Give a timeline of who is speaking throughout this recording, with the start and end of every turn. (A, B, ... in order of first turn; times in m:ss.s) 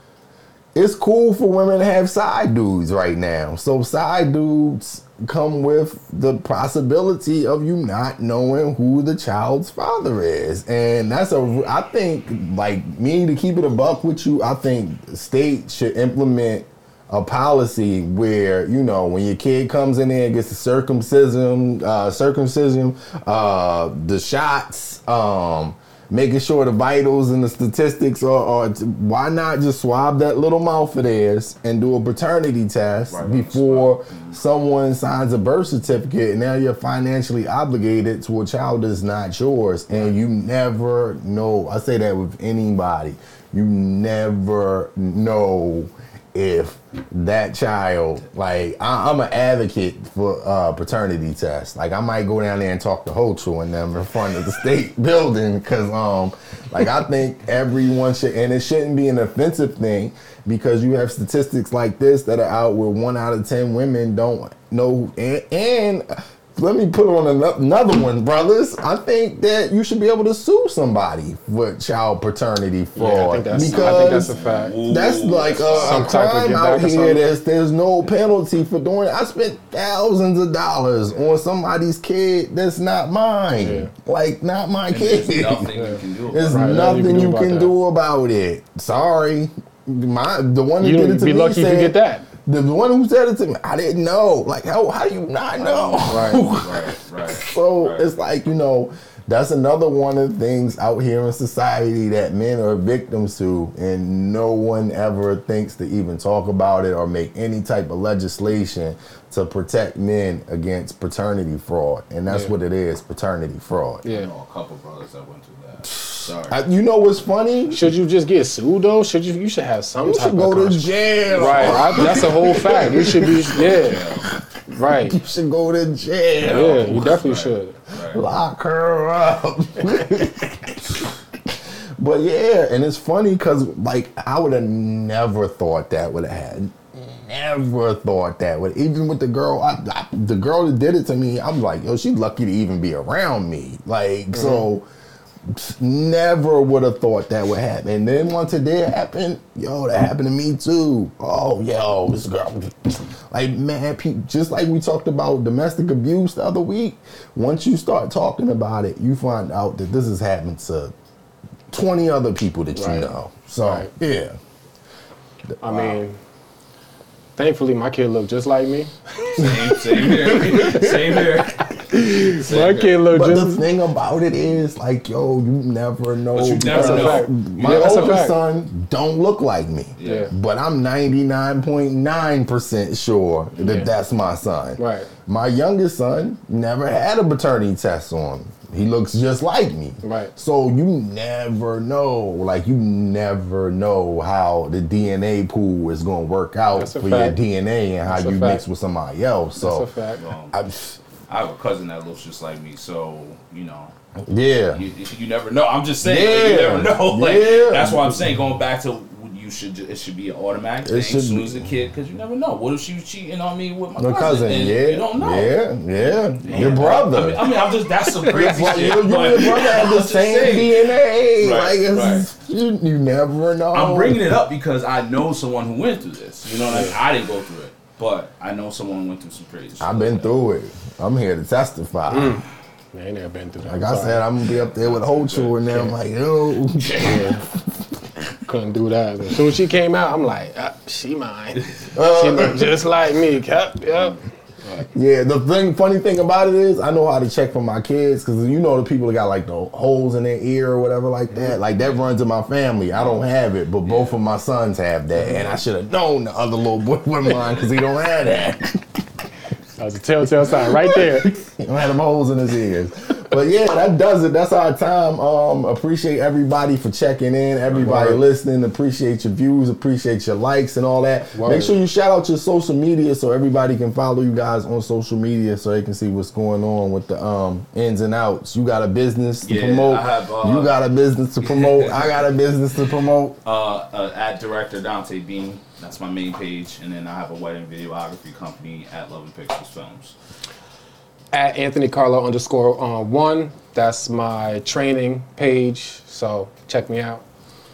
0:00.7-1:25.7 A
0:33.1-0:34.4 B
1:13.0-1:14.7 C
1:13.5-1:16.2 B
1:15.7-1:17.2 C
1:23.6-1:23.9 C
1:24.9-1:26.8 B
1:25.7-1:27.7 C
1:26.3-1:54.0 A
1:30.8-1:32.3 C
1:35.6-1:38.1 B
1:36.1-1:36.4 C
1:52.3-1:52.5 C
1:54.0-1:56.6 B
1:55.9-1:57.8 A
1:57.7-2:04.0 C
2:00.0-2:07.2 A
2:01.2-2:04.3 B
2:04.7-2:05.2 C
2:06.4-2:08.2 B
2:06.5-2:07.8 C
2:08.0-2:24.8 A
2:24.3-2:24.6 C
2:25.4-2:40.9 A
2:41.7-2:44.4 A
2:42.7-2:43.9 C
2:45.6-2:46.2 C
2:45.6-2:46.0 A
2:47.4-2:53.6 C
2:49.3-2:53.1 B
2:50.1-2:51.2 A
2:53.1-3:19.9 A
2:56.3-2:58.2 B
2:56.7-2:58.4 C
3:00.0-3:00.3 B
3:00.0-3:00.3 C
3:03.5-3:03.8 B
3:03.6-3:03.9 C
3:04.8-3:05.1 C
3:10.0-3:10.3 C
3:16.7-3:17.4 C
3:18.1-3:18.6 C
3:19.6-3:20.2 C
3:20.2-3:20.6 B
3:20.5-3:21.0 A
3:21.3-3:23.9 B
3:24.3-3:24.8 A
3:24.7-3:42.3 B
3:26.0-3:28.3 A
3:30.8-3:31.6 A
3:34.0-3:37.6 A
3:36.5-3:36.9 C
3:38.0-3:38.6 C
3:38.2-3:44.3 A
3:43.7-3:50.3 B
3:46.7-3:46.9 C
3:49.8-3:52.4 A
3:52.1-3:54.2 C
3:53.6-3:58.0 A
3:54.4-3:55.6 B
3:55.7-3:55.9 C
3:56.7-3:57.3 B
3:57.0-3:57.4 C
3:58.4-4:04.9 C
4:01.9-4:02.8 A
4:04.9-4:19.0 A
4:12.9-4:13.2 B
4:13.8-4:14.2 B
4:19.8-4:21.3 C
4:20.4-4:43.4 A
4:27.8-4:28.2 C
4:31.3-4:31.7 C
4:39.4-4:40.8 B
4:41.4-4:42.2 B
4:43.4-4:50.1 B
4:51.3-4:57.2 C